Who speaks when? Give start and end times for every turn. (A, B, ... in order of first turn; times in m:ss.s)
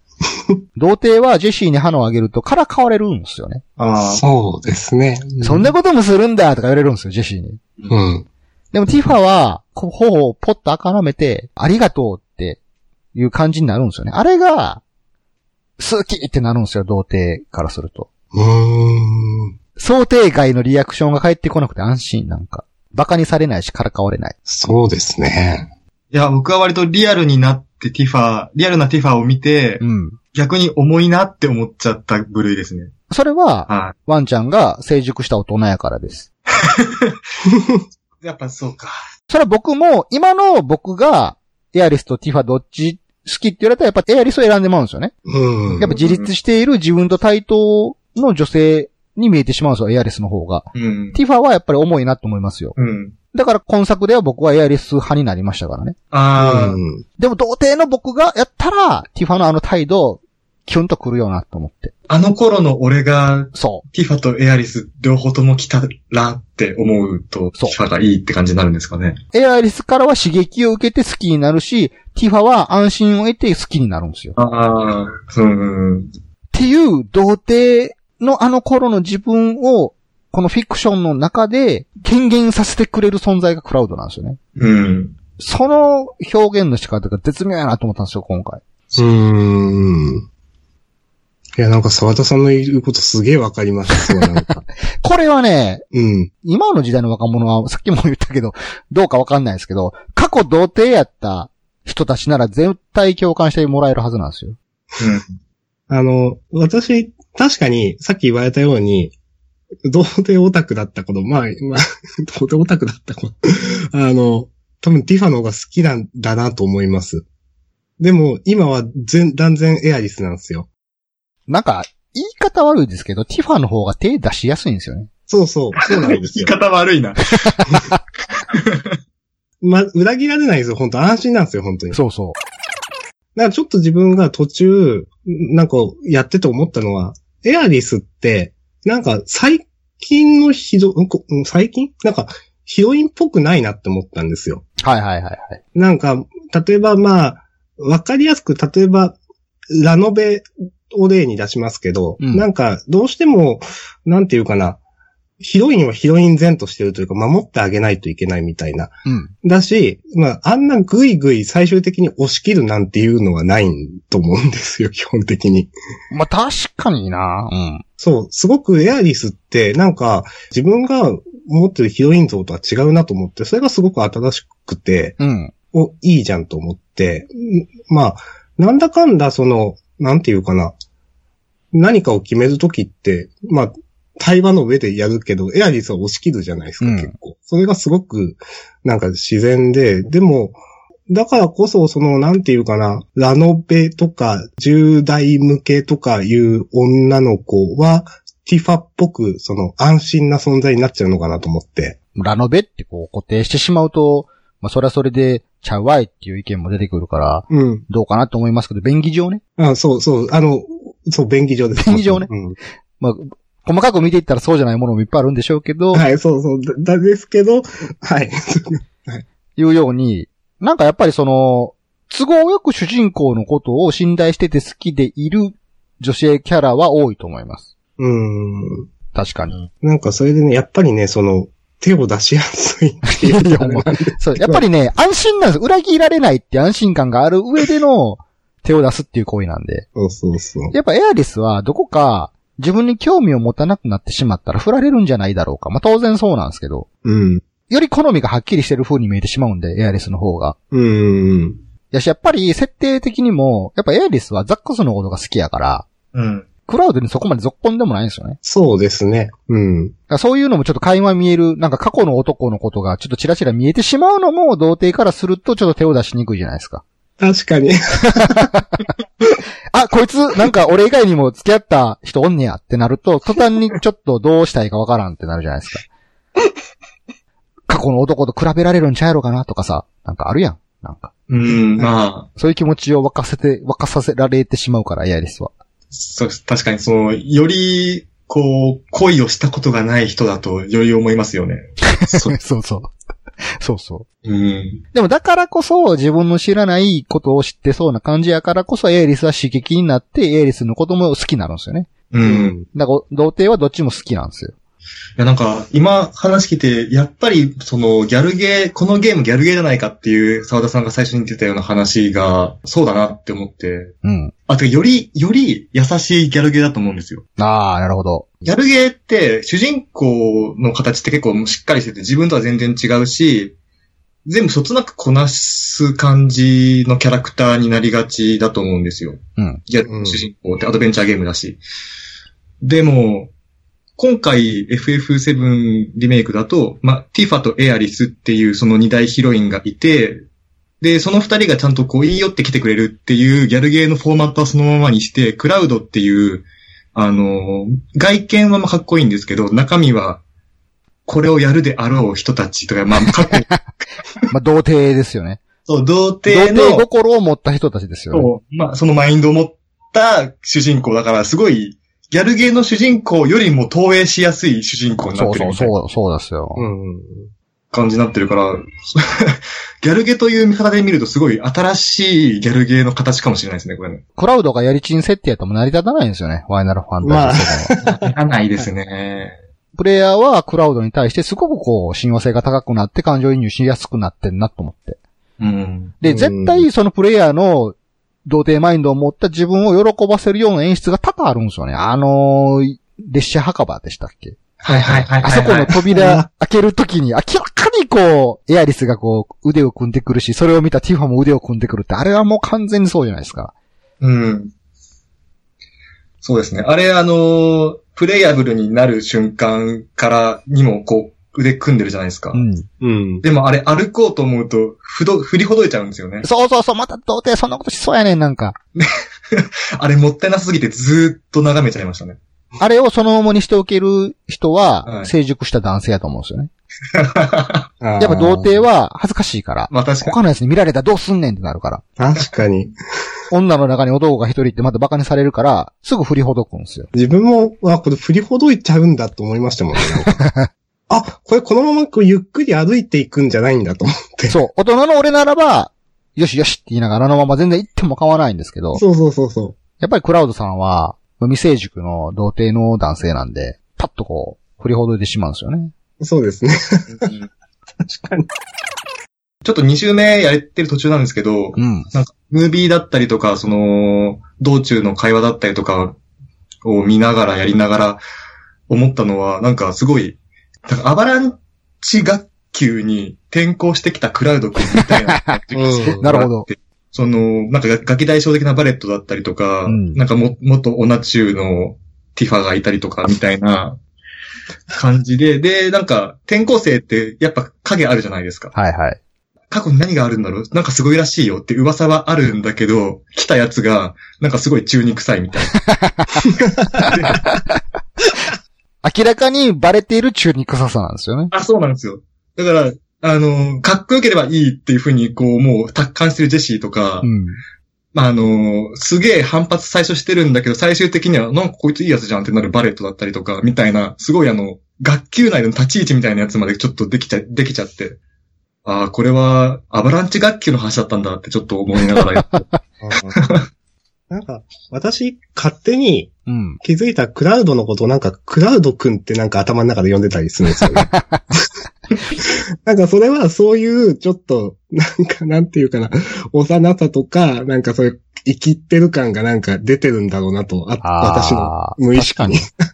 0:00.8-0:03.6 A
0:03.8-0:04.2 B
0:04.1-0:05.7 C
0:05.4-0:07.6 A
0:07.9-0:08.2 C
0:08.7-0:12.6 A
0:13.1-0:14.8 A
0:15.8-0:18.1 A
0:18.3-0:19.5 C
0:19.8-0:24.3 A
0:24.5-0:25.7 C
0:26.1-0:29.8 B
0:29.8-0:30.2 A
0:30.3-0:32.9 B
0:33.1-0:36.3 A
0:33.7-0:33.9 B
0:36.6-0:37.2 B
0:37.5-0:37.8 C
0:38.2-0:39.0 B
0:39.3-0:45.1 A
0:45.3-0:45.9 C
0:45.7-0:46.3 B
0:45.8-0:52.7 A
0:50.7-0:51.2 B
0:52.8-0:53.1 B
0:53.3-0:56.0 A
0:56.1-0:56.8 B
0:56.4-0:57.0 C
0:57.2-1:01.9 A
1:02.1-1:09.2 B
1:03.5-1:03.8 A
1:09.3-1:14.3 A
1:14.4-1:16.1 B
1:16.5-1:24.4 A
1:24.6-1:25.1 B
1:25.4-1:28.6 A
1:29.0-1:30.3 C
1:31.6-1:34.6 C
1:35.0-1:35.8 A
1:35.9-1:36.3 C
1:36.4-1:44.6 A
1:45.0-1:45.2 B
1:45.9-1:49.1 C
1:49.8-1:57.2 C
1:58.0-2:00.7 C
2:01.5-2:05.1 A
2:05.3-2:06.6 C
2:05.8-2:07.6 B
2:07.4-2:08.0 A
2:08.5-2:09.0 B
2:09.6-2:12.0 C
2:11.9-2:12.4 A
2:13.4-2:24.6 C
2:24.8-2:25.6 A
2:25.7-2:29.2 C
2:29.7-2:34.8 C
2:32.2-2:32.4 A
2:35.4-2:45.7 C
2:39.0-2:39.3 A
2:46.1-2:47.8 A
2:48.0-2:55.2 C
2:55.2-2:55.5 A
2:55.7-3:00.7 C
3:01.7-3:22.0 C
3:06.8-3:07.1 A
3:22.2-3:29.4 A
3:27.5-3:27.8 C
3:29.6-3:32.6 C
3:31.8-3:32.3 A
3:33.0-3:36.0 A
3:35.9-3:39.2 C
3:39.6-3:47.6 A
3:48.0-3:48.9 C
3:49.1-3:49.6 A
3:49.8-3:54.6 C
3:53.0-3:59.8 A
3:59.9-4:00.7 C
4:00.7-4:06.9 A
4:07.0-4:07.4 C
4:07.7-4:10.6 A
4:10.7-4:11.6 C
4:11.9-4:15.9 A
4:16.1-4:16.5 B
4:16.7-4:18.4 A
4:18.4-4:19.9 C
4:20.1-4:26.8 A
4:27.2-4:28.5 C
4:28.2-4:28.7 A
4:29.7-4:35.9 A
4:37.7-4:41.1 A
4:41.3-4:42.3 B
4:42.4-4:45.5 A
4:45.9-4:52.3 B
4:51.9-4:52.9 A
4:53.6-4:54.0 A
4:54.2-4:54.8 B
4:54.9-5:01.9 A
5:02.1-5:02.5 B
5:02.2-5:02.7 C
5:02.7-5:04.5 A
5:05.2-5:13.9 B
5:14.0-5:14.3 A
5:14.5-5:17.2 B
5:17.4-5:18.3 A
5:18.4-5:23.5 B
5:24.2-5:31.6 B
5:29.9-5:30.2 C
5:32.6-5:33.3 B
5:34.0-5:40.2 B
5:40.8-5:50.2 B
5:51.1-5:53.7 B
5:54.3-5:55.4 A
5:55.6-5:56.8 B
5:56.3-5:58.3 A
5:58.1-6:05.7 B
6:05.1-6:06.6 A
6:06.6-6:07.3 C
6:07.7-6:14.0 B
6:14.2-6:17.7 A
6:17.0-6:18.0 C
6:17.8-6:19.3 B
6:19.8-6:25.0 A
6:25.4-6:25.9 B
6:26.0-6:27.7 A
6:26.0-6:26.7 C
6:28.2-6:34.4 A
6:34.6-6:35.1 C
6:34.6-6:35.8 B
6:35.2-6:43.5 A
6:35.9-6:36.3 C
6:44.0-6:44.5 B
6:46.2-6:52.4 B
6:52.3-6:52.6 A
6:52.8-6:53.2 C
6:53.2-6:56.2 B
6:56.2-6:58.6 A
6:58.8-7:02.2 B
7:02.6-7:06.5 A
7:04.8-7:05.1 B
7:06.9-7:07.7 B
7:07.8-7:08.6 C
7:08.0-7:11.8 A
7:09.7-7:10.1 B
7:12.0-7:12.7 C
7:13.3-7:16.9 A
7:16.9-7:20.2 C
7:20.0-7:20.5 A
7:20.9-7:24.4 C
7:24.3-7:28.8 A
7:28.7-7:29.6 C
7:29.8-7:35.7 A
7:36.0-7:37.1 C
7:37.0-7:37.3 B
7:37.8-7:38.3 C
7:39.4-7:46.0 B
7:41.6-7:41.9 A
7:46.6-7:48.0 B
7:48.7-8:03.8 B
7:54.8-7:56.4 A
7:55.5-7:56.1 C
7:59.7-8:00.0 A
8:04.7-8:08.5 B
8:08.5-8:09.0 A
8:09.5-8:15.7 B
8:15.6-8:17.6 A
8:16.7-8:17.2 B
8:18.8-8:21.3 A
8:21.3-8:27.1 B
8:27.0-8:27.4 A
8:27.9-8:38.0 B
8:38.6-8:42.5 B
8:41.9-8:42.6 A
8:42.8-8:43.2 C
8:43.2-8:43.4 B
8:44.1-8:51.4 C
8:46.3-8:46.6 A
8:50.7-8:51.3 A
8:52.2-9:02.5 C
9:00.8-9:02.4 A